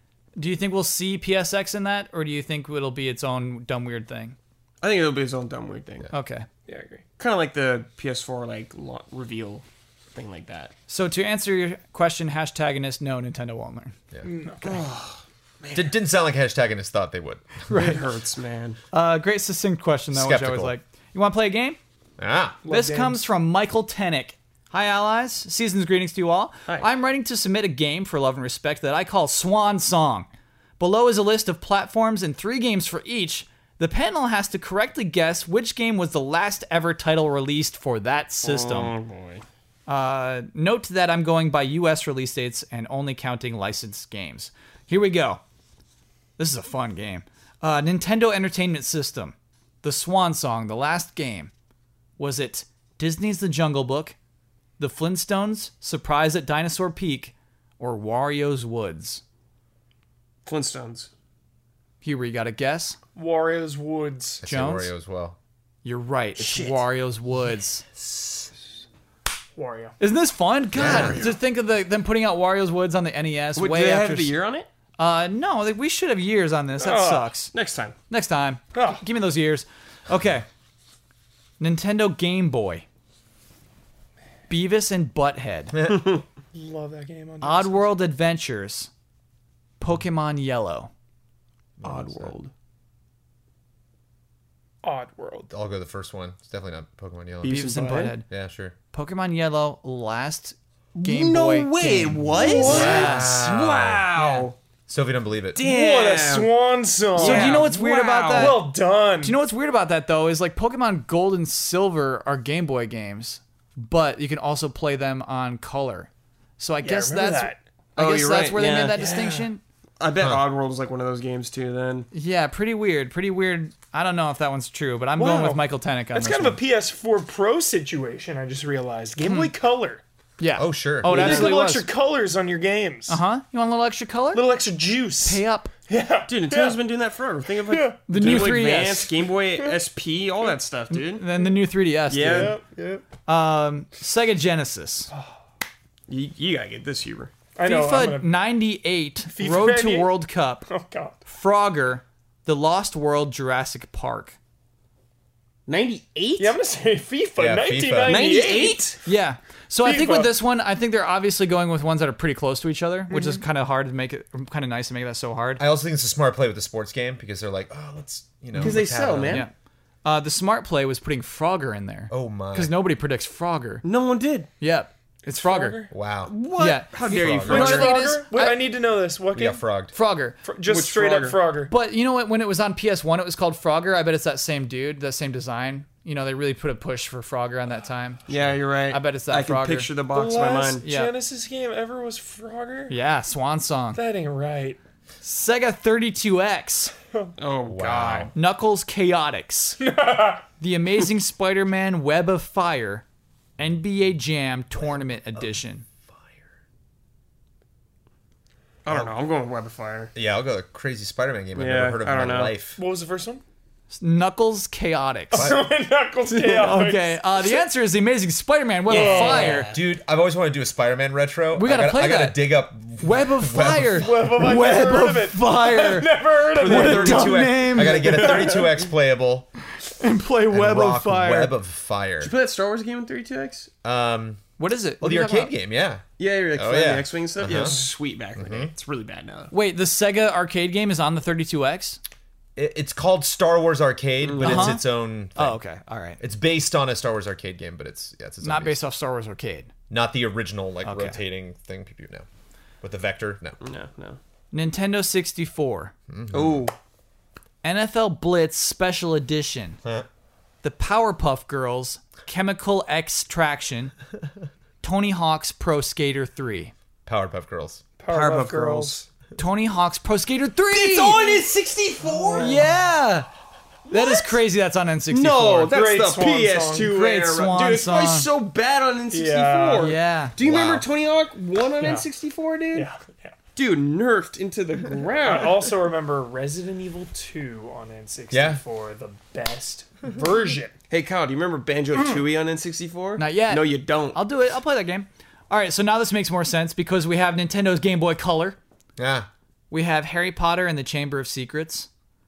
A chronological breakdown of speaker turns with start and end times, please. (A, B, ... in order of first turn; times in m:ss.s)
0:00.4-0:04.4 A
0:04.8-0:06.1 B
0:06.1-0:06.5 A
0:06.7-0:07.0 C
0:07.2-0:09.6 B
0:10.1-0:10.7 B
0:10.9-0:13.9 A
0:14.2-0:14.8 C
0:14.6-0:15.9 B
0:15.7-0:17.7 D
0:17.7-0:18.0 A
0:17.7-0:18.8 B
0:18.9-0:21.8 A
0:20.1-0:20.7 D
0:22.2-0:22.6 D
0:22.6-0:23.2 C
0:22.7-0:30.3 A
0:30.8-0:39.0 A
0:38.4-0:39.4 B
0:39.9-0:45.4 A
0:46.4-0:51.5 A
0:52.2-0:54.2 A
0:54.8-0:59.2 A
1:00.4-1:01.1 B
1:02.0-1:03.0 A
1:03.1-1:04.4 C
1:04.4-1:05.4 D
1:04.4-1:04.9 A
1:05.8-1:07.8 A
1:06.4-1:06.8 B
1:09.6-1:10.0 C
1:10.0-1:14.3 A
1:10.7-1:11.2 D
1:10.8-1:11.3 B
1:13.6-1:14.7 B
1:15.0-1:17.5 A
1:16.8-1:17.3 C
1:17.5-1:18.0 B
1:18.1-1:20.4 A
1:18.7-1:19.0 C
1:21.6-1:22.8 A
1:24.5-1:25.9 A
1:26.5-1:27.9 C
1:27.4-1:28.9 A
1:29.8-1:30.9 A
1:31.8-1:32.3 D
1:31.8-1:32.5 B
1:34.8-1:35.5 C
1:35.5-1:37.6 D
1:37.4-1:38.2 B
1:37.4-1:38.3 A
1:38.3-1:38.8 D
1:38.9-1:43.5 A
1:41.0-1:44.6 B
1:42.4-1:43.0 C
1:42.4-1:44.1 D
1:44.2-1:44.4 A
1:44.9-1:45.6 D
1:45.6-1:46.5 B
1:45.6-1:47.7 C
1:47.1-1:48.6 B
1:47.2-1:59.6 A
1:48.3-1:49.4 C
1:56.8-1:57.6 C
1:58.0-1:59.2 B
1:59.0-1:59.5 C
2:00.0-2:02.1 B
2:02.1-2:06.6 A
2:05.2-2:10.0 C
2:09.2-2:09.5 A
2:10.4-2:11.9 A
2:10.6-2:11.4 D
2:11.0-2:13.2 C
2:11.2-2:11.4 B
2:13.1-2:14.4 A
2:14.3-2:16.8 C
2:15.2-2:15.7 A
2:16.3-2:21.2 B
2:17.6-2:18.5 C
2:18.1-2:19.1 A
2:20.9-2:22.6 A
2:22.1-2:22.6 B
2:22.2-2:23.0 C
2:23.3-2:25.1 A
2:26.1-2:27.3 B
2:27.6-2:28.3 C
2:27.6-2:30.6 A
2:29.3-2:30.1 C
2:30.7-2:31.2 C
2:31.3-2:34.4 A
2:35.7-2:36.6 B
2:36.4-2:39.0 C
2:37.4-2:38.2 D
2:38.0-2:39.0 B
2:39.0-2:45.6 A
2:39.8-2:40.3 C
2:43.1-2:43.4 C
2:45.6-2:49.5 D
2:48.5-2:49.5 A
2:48.6-2:49.5 B
2:50.0-2:53.8 A
2:52.1-2:52.7 D
2:53.8-2:54.5 B
2:54.6-2:55.8 A
2:55.2-2:55.9 C
2:55.9-2:56.3 D
2:56.3-2:57.9 B
2:56.6-2:58.7 A
2:57.0-2:57.8 D
2:57.5-2:59.6 C
2:59.3-2:59.9 D
2:59.9-3:00.4 A
3:00.4-3:01.7 C
3:00.6-3:01.4 B
3:01.7-3:08.2 A
3:08.3-3:10.8 B
3:08.3-3:08.6 D
3:08.9-3:09.9 A
3:10.1-3:13.0 C
3:10.8-3:11.1 A
3:12.9-3:14.0 A
3:14.0-3:14.8 C
3:15.2-3:16.9 A
3:17.4-3:18.3 B
3:17.7-3:18.3 D
3:18.3-3:19.8 A
3:19.8-3:20.4 C
3:20.6-3:23.0 A
3:23.6-3:25.9 A
3:28.8-3:30.1 B
3:28.9-3:29.1 D
3:30.1-3:32.8 D
3:31.6-3:32.5 B
3:32.8-3:33.4 C
3:33.9-3:35.6 A
3:35.3-3:37.6 C
3:36.3-3:39.7 A
3:38.9-3:39.8 B
3:38.9-3:39.7 C
3:39.7-3:44.1 D
3:41.5-3:48.5 A
3:44.0-3:47.5 C
3:46.5-3:49.5 D
3:48.2-3:48.6 B
3:48.3-3:48.7 C
3:49.9-3:51.5 A
3:50.5-3:52.3 D
3:52.2-3:53.7 B
3:53.8-3:54.4 D
3:54.6-3:55.5 A
3:55.0-3:57.8 D
3:56.2-3:59.5 B
3:58.3-3:58.7 D
3:59.5-4:02.0 A
4:02.6-4:05.6 D
4:04.2-4:04.8 B
4:04.4-4:04.8 A
4:05.3-4:06.2 A
4:06.2-4:08.8 D
4:08.4-4:09.7 A
4:09.9-4:12.3 D
4:10.8-4:11.2 A
4:12.8-4:13.6 D
4:13.6-4:14.2 B
4:14.5-4:15.9 A
4:16.1-4:16.7 D
4:16.3-4:16.7 B
4:17.6-4:19.8 A
4:20.6-4:23.9 A
4:24.8-4:26.7 A
4:27.0-4:27.8 D
4:28.0-4:29.0 C
4:28.1-4:29.0 B
4:29.4-4:31.4 A
4:30.7-4:32.6 B
4:32.1-4:32.7 C
4:32.4-4:33.3 A
4:33.9-4:35.8 A
4:33.9-4:34.3 B
4:35.1-4:42.9 B
4:35.7-4:36.9 C
4:36.8-4:38.3 A
4:39.1-4:40.0 C
4:39.8-4:40.4 A
4:40.4-4:40.9 D
4:41.8-4:42.1 C
4:42.7-4:43.3 C
4:43.6-4:45.7 B
4:45.2-4:50.7 C
4:48.3-4:48.6 D
4:50.9-4:54.2 B
4:53.2-4:58.6 A
4:59.0-4:59.3 D
4:59.7-5:01.9 A